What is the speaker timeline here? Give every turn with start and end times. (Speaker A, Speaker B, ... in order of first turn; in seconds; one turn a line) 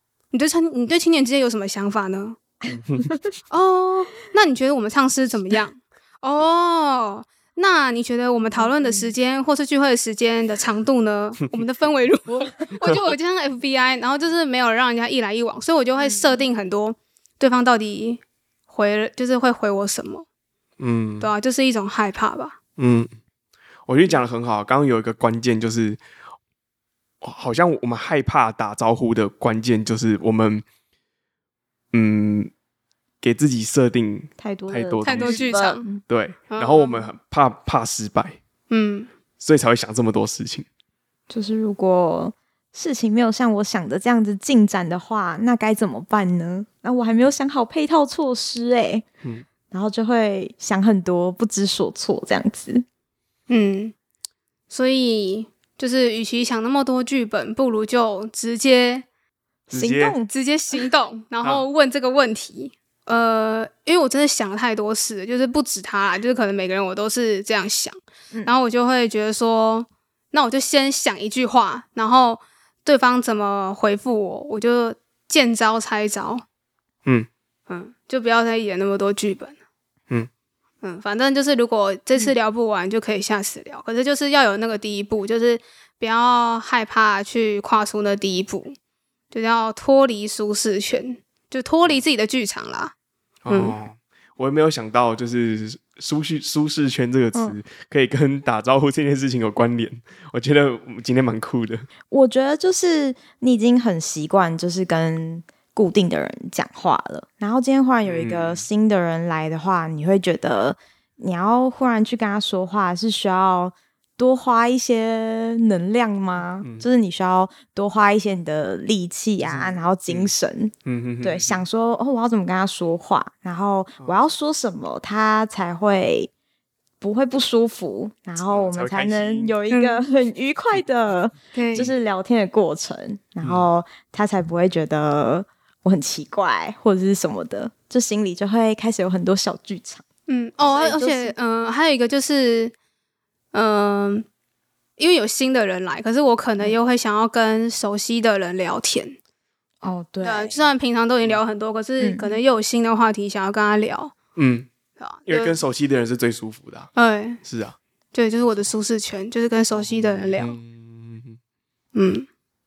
Speaker A: 0.3-2.4
Speaker B: 2.7-3.1
Speaker C: 3.0-3.3
Speaker A: 3.5-20.2
Speaker C: 8.6-9.1
Speaker C: 16.0-16.4
Speaker B: 20.8-21.3
Speaker A: 21.2-22.6
Speaker B: 22.8-23.1
Speaker B: 23.9-26.0
Speaker B: 27.2-30.6
Speaker B: 31.9-32.5
Speaker B: 33.2-38.4
Speaker C: 34.4-36.0
Speaker A: 35.0-35.8
Speaker A: 36.5-37.1
Speaker A: 38.7-39.1
Speaker B: 39.4-40.7
Speaker C: 41.3-49.0
Speaker C: 49.7-52.8
Speaker A: 53.5-53.9
Speaker A: 54.7-59.0
Speaker B: 59.7-60.1
Speaker C: 59.7-60.3
Speaker A: 60.3-76.4
Speaker A: 77.7-79.5
Speaker A: 80.8-88.8
Speaker A: 89.3-92.9
Speaker B: 93.4-101.9
Speaker A: 93.5-93.7
Speaker C: 102.1-126.3
Speaker B: 108.0-108.6
Speaker B: 116.6-116.9
Speaker B: 119.4-120.3
Speaker B: 120.8-121.6
Speaker C: 127.0-140.0
Speaker B: 128.5-129.5
Speaker A: 129.7-130.0
Speaker A: 131.5-131.9
Speaker B: 133.4-133.7
Speaker A: 140.3-142.7
Speaker C: 140.6-141.3
Speaker A: 143.5-144.2
Speaker A: 145.0-149.2
Speaker C: 149.8-150.6
Speaker A: 150.2-154.1
Speaker C: 152.0-152.4
Speaker B: 154.3-154.7
Speaker A: 155.0-155.5
Speaker B: 155.3-156.9
Speaker A: 156.9-157.4
Speaker B: 157.4-157.8
Speaker A: 158.1-160.5
Speaker B: 159.7-161.4
Speaker A: 161.9-162.3